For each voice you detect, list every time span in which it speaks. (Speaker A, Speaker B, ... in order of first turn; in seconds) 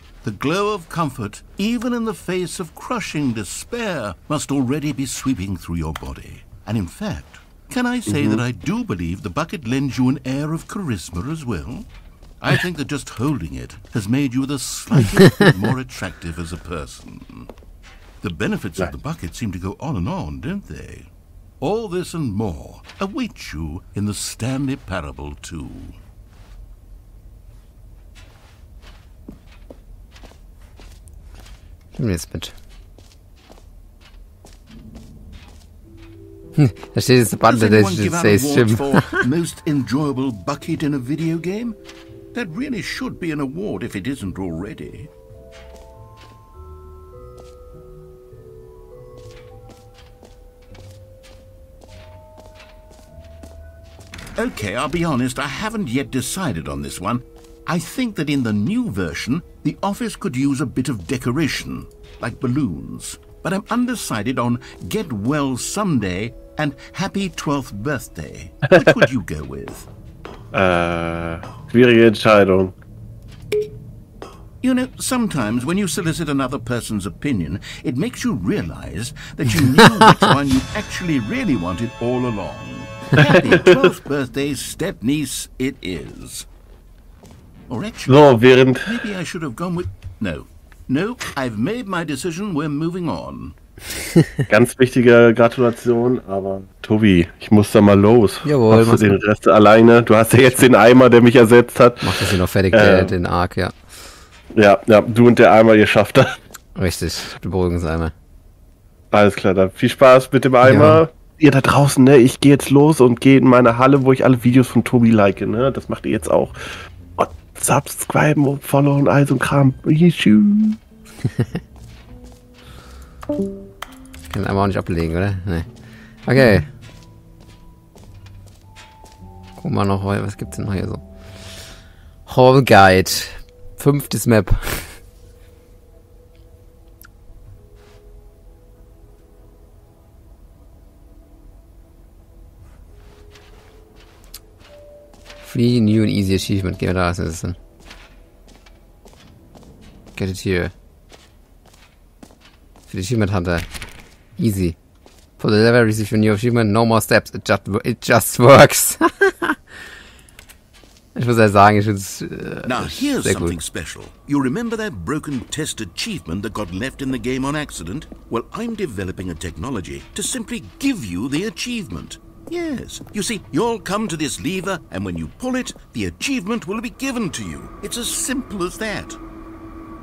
Speaker A: 0.2-11.9, 12.4-17.5, 18.2-26.0, 37.4-41.8, 42.3-45.1, 54.4-69.9, 74.6-86.5, 87.7-93.6, 162.7-179.2
Speaker B: 32.0-32.5, 36.6-39.3, 98.4-99.2, 102.0-103.7, 106.8-108.1, 110.7-111.0, 121.3-121.5, 124.3-125.7, 126.3-126.7, 129.6-131.1, 132.3-135.0, 145.4-147.6, 150.2-150.7, 152.9-153.7, 154.4-154.8, 155.4-159.6, 161.2-163.6
Speaker C: 70.5-72.8, 83.2-83.8, 88.1-89.0, 94.5-103.1, 104.6-106.4, 109.1-116.6, 117.2-120.8